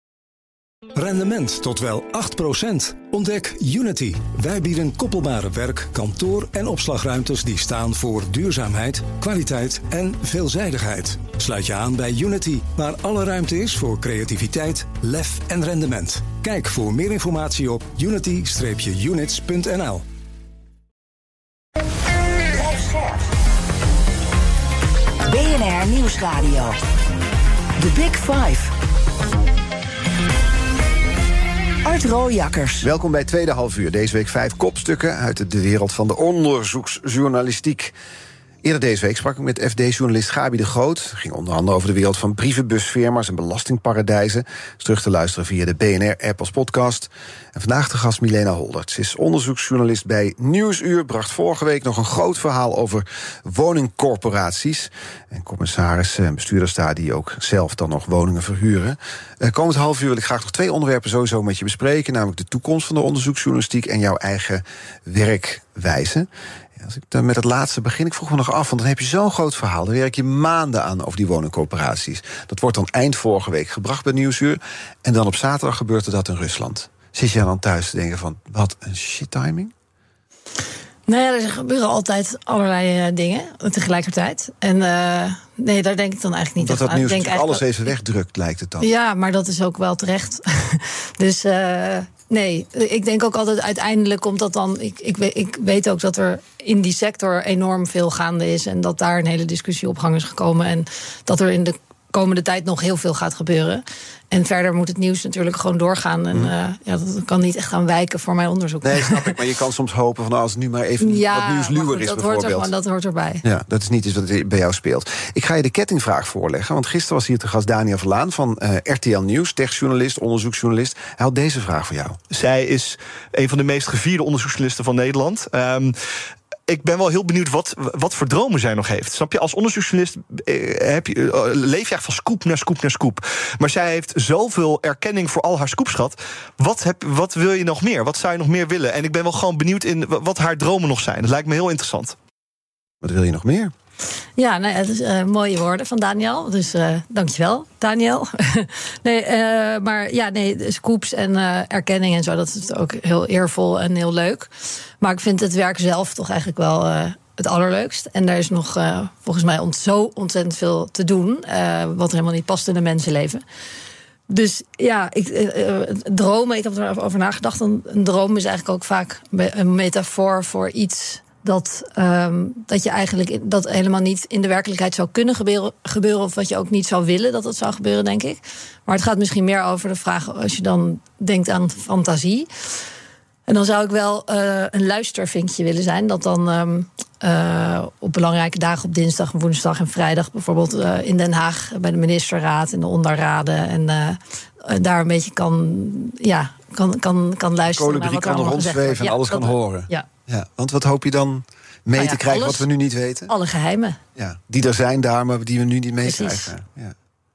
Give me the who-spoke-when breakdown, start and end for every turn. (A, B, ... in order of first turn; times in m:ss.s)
0:00.9-0:20.0 A
0:22.5-0:23.2 B
0:25.2-0:26.8 B
0:27.8-0:28.7 B
0:31.8-0:32.9 B
0:32.8-0:37.9 C
0:38.6-1:19.7 C
1:21.1-1:27.6 D
1:26.6-1:28.9 C
1:28.8-1:49.3 D
1:48.8-1:52.7 C
1:51.0-1:53.4 D
1:53.4-2:02.2 C
2:02.3-2:06.0 E
2:06.7-2:22.2 E
2:23.0-2:23.7 C
2:24.4-2:43.4 D
2:44.3-3:02.5 D
3:03.5-3:20.0 D
3:17.7-3:23.3 C
3:22.0-3:22.6 D
3:23.3-3:24.0 D
3:24.2-3:26.9 C
3:26.0-3:26.5 D